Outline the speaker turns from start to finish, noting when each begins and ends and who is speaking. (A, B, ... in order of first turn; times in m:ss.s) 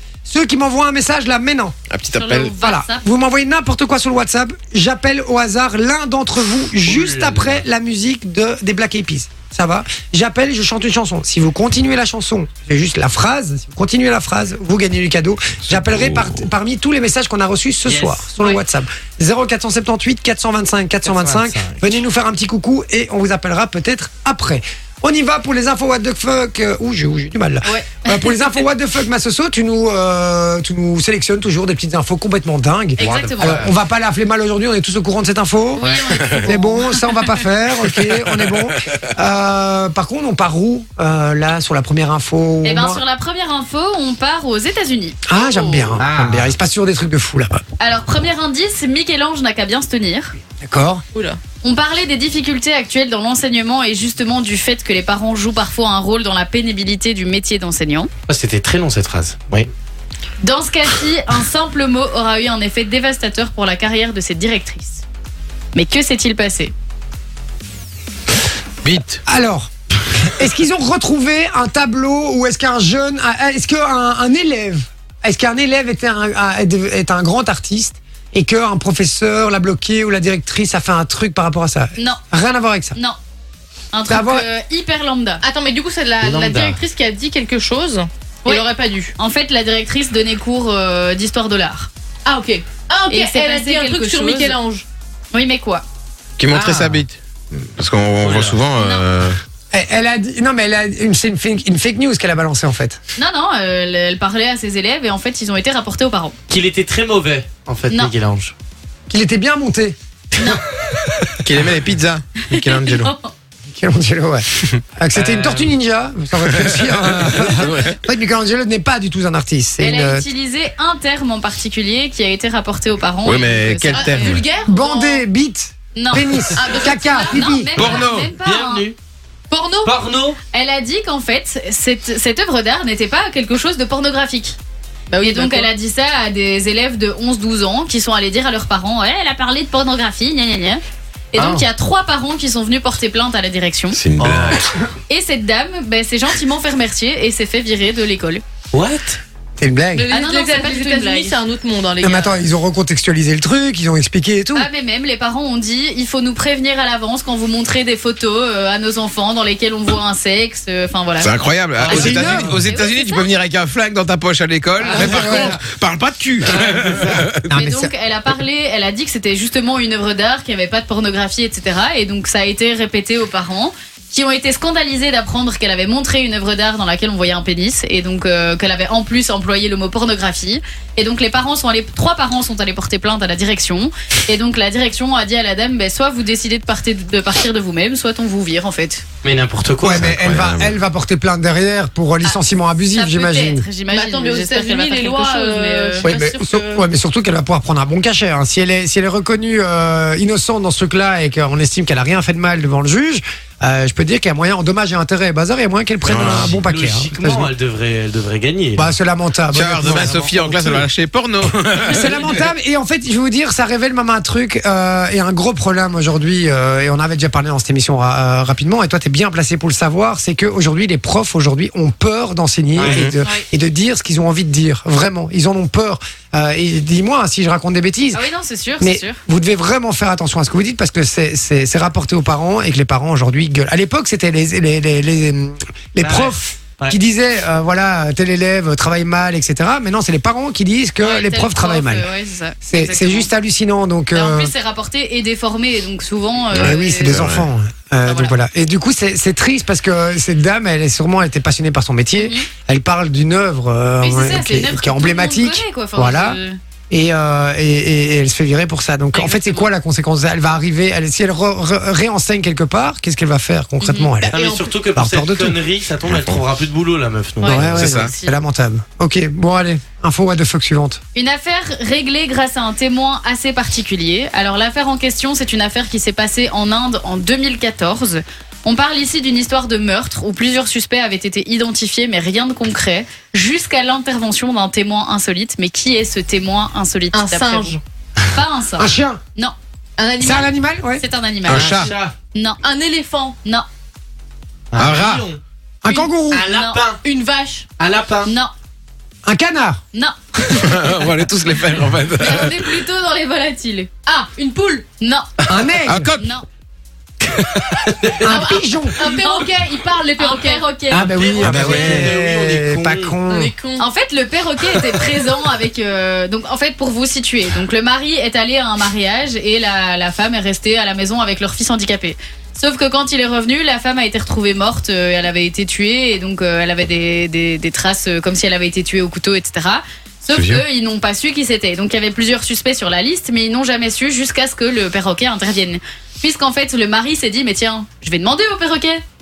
0:00.2-0:01.8 A
0:01.9-0:02.6 B
0:02.1-0:03.1 C
0:02.6-0:43.0 A
0:06.8-0:07.6 D
0:16.0-0:16.3 B
0:17.8-0:18.6 D
0:21.0-0:21.8 D
0:27.6-0:28.5 C
0:33.0-0:33.6 C
0:33.0-0:33.7 D
0:35.8-0:37.4 C
0:35.8-0:36.2 D
0:37.9-0:39.0 B
0:42.6-0:45.2 C
0:45.3-0:47.6 A
0:45.3-0:45.9 E
0:46.0-0:46.5 D
0:47.8-0:50.3 C
0:50.6-0:51.0 A
0:51.1-0:51.4 E
0:51.6-0:58.1 C
0:58.3-0:59.7 D
1:00.4-1:05.0 C
1:05.8-1:06.7 C
1:08.8-1:09.2 B
1:09.2-1:23.0 A
1:22.0-1:22.2 C
1:23.9-1:25.4 C
1:24.1-1:24.5 A
1:25.4-1:29.1 E
1:26.2-1:26.8 D
1:29.2-1:31.9 C
1:32.3-1:34.9 E
1:33.1-1:34.6 C
1:35.3-1:35.8 C
1:36.4-1:39.4 B
1:36.5-1:37.0 D
1:38.2-1:38.6 D
1:38.8-1:39.1 C
1:39.7-1:43.0 A
1:43.2-1:46.4 C
1:46.5-1:48.5 D
1:47.9-1:48.2 C
1:49.1-1:50.0 A
1:50.4-1:50.6 C
1:51.4-1:53.2 B
1:52.5-1:53.3 C
1:53.7-2:00.3 A
1:55.1-1:55.8 D
1:56.4-1:58.0 B
1:59.8-2:04.5 C
2:03.2-2:04.4 B
2:03.9-2:05.2 E
2:04.7-2:07.8 A
2:06.0-2:08.9 C
2:06.5-2:07.5 E
2:07.8-2:09.0 D
2:07.8-2:08.3 B
2:09.5-2:10.0 E
2:09.8-2:10.4 D
2:10.5-2:14.6 C
2:15.1-2:15.7 E
2:15.2-2:20.8 C
2:21.3-2:24.0 C
2:21.4-2:21.6 D
2:23.9-2:24.6 B
2:24.2-2:24.6 D
2:25.1-2:28.4 C
2:28.7-2:29.2 D
2:29.6-2:30.1 A
2:30.0-2:32.4 E
2:30.1-2:31.4 C
2:32.0-2:34.7 A
2:34.5-2:43.3 C
2:41.2-2:47.5 B
2:41.8-2:42.5 D
2:41.9-2:42.6 A
2:44.9-2:45.4 C
2:44.9-2:45.6 A
2:46.9-2:47.9 A
2:47.5-3:09.0 C
3:09.2-3:10.1 D
3:09.8-3:13.7 A
3:09.8-3:10.8 B
3:12.2-3:16.1 C
3:13.9-3:16.9 E
3:16.0-3:27.5 A
3:26.0-3:26.6 B
3:26.1-3:28.9 D
3:28.8-3:30.8 A
3:29.5-3:32.5 B
3:29.8-3:30.4 D
3:31.8-3:48.2 A
3:42.8-3:43.0 D
3:42.9-3:43.1 B
3:48.1-3:49.2 C
3:48.8-4:02.1 A
3:56.0-3:57.0 D
4:01.0-4:03.3 C
4:02.6-4:04.5 A
4:04.1-4:07.2 C
4:06.5-4:07.5 B
4:06.6-4:24.4 A
4:08.0-4:08.4 C
4:12.2-4:12.5 C
4:14.0-4:16.6 C
4:19.1-4:19.7 C
4:23.8-4:24.2 C
4:24.3-4:27.7 D
4:24.3-4:24.6 E
4:24.9-4:25.6 A
4:26.1-4:26.4 B
4:27.4-4:28.4 C
4:27.4-4:31.0 A
4:27.6-4:28.1 B
4:31.2-4:47.8 C
4:47.1-4:47.8 E
4:48.3-4:49.6 C
4:48.8-4:49.2 A
4:50.0-4:50.5 E
4:50.2-4:51.0 A
4:51.0-4:51.8 C
4:51.5-4:51.9 B
4:51.5-4:52.2 D
4:52.3-4:52.6 C
4:52.6-4:53.4 E
4:54.7-4:55.4 D
4:54.8-4:55.3 B
4:55.8-4:56.4 A
4:55.9-4:56.2 E
4:56.3-4:57.0 D
4:56.5-4:56.9 C
4:57.0-4:57.7 E
4:57.8-4:58.3 D
4:58.2-4:58.5 C
4:59.2-4:59.8 A
4:59.9-5:00.6 C
5:00.6-5:02.8 B
5:02.2-5:03.9 C
5:04.1-5:04.9 E
5:05.0-5:05.4 C
5:05.5-5:06.2 A
5:05.9-5:06.3 B
5:06.2-5:06.5 C
5:07.3-5:07.8 B
5:07.8-5:08.4 D
5:08.2-5:09.0 A
5:08.3-5:10.7 E
5:09.0-5:09.6 C
5:10.2-5:11.1 C
5:10.9-5:13.5 A
5:11.0-5:13.2 D
5:11.4-5:12.2 B
5:13.3-5:13.9 E
5:13.8-5:39.0 C
5:30.3-5:30.6 B